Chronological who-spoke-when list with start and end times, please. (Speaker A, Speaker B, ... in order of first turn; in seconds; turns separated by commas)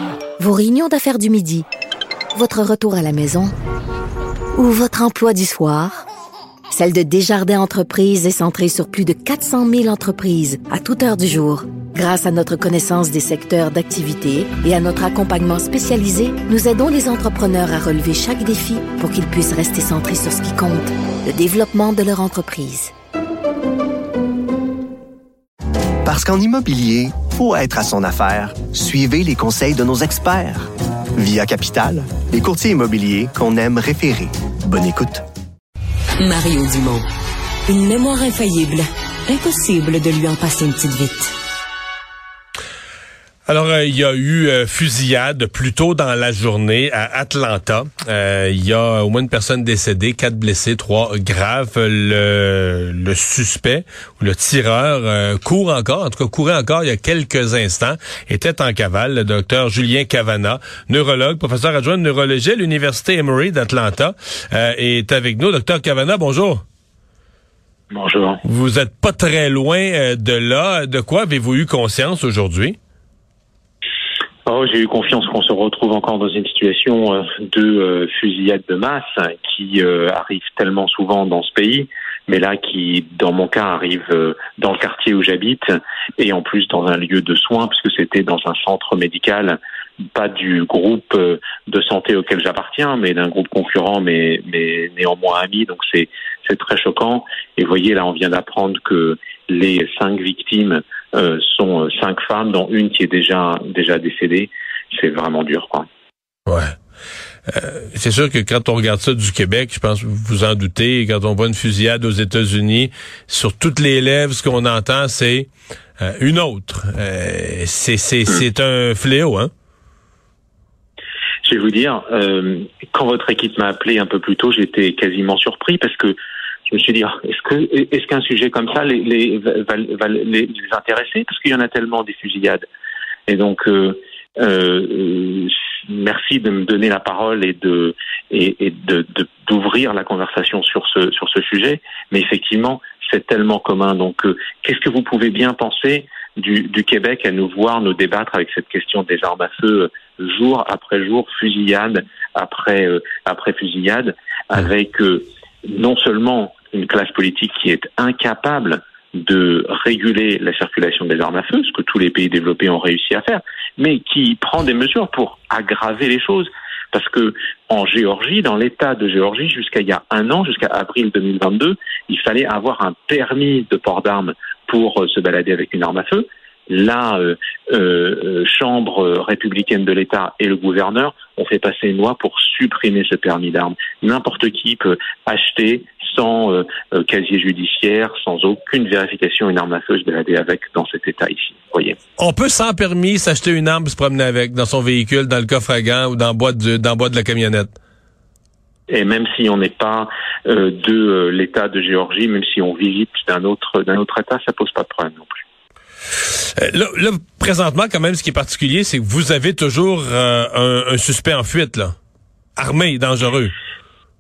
Speaker A: 0.4-1.7, Speaker A: 2.3-3.5, Speaker A: 4.6-6.1, Speaker A: 6.7-22.9, Speaker B: 26.1-35.2, Speaker C: 36.2-37.0, Speaker C: 37.7-41.3, Speaker D: 43.5-66.6, Speaker E: 67.9-68.4, Speaker D: 68.4-72.8, Speaker E: 74.5-89.6, Speaker E: 90.2-105.9, Speaker D: 106.5-106.7, Speaker D: 107.5-119.5, Speaker E: 121.4-132.7, Speaker E: 133.3-192.0, Speaker D: 192.2-197.7, Speaker E: 198.9-205.4, Speaker D: 206.3-211.9, Speaker D: 212.6-213.6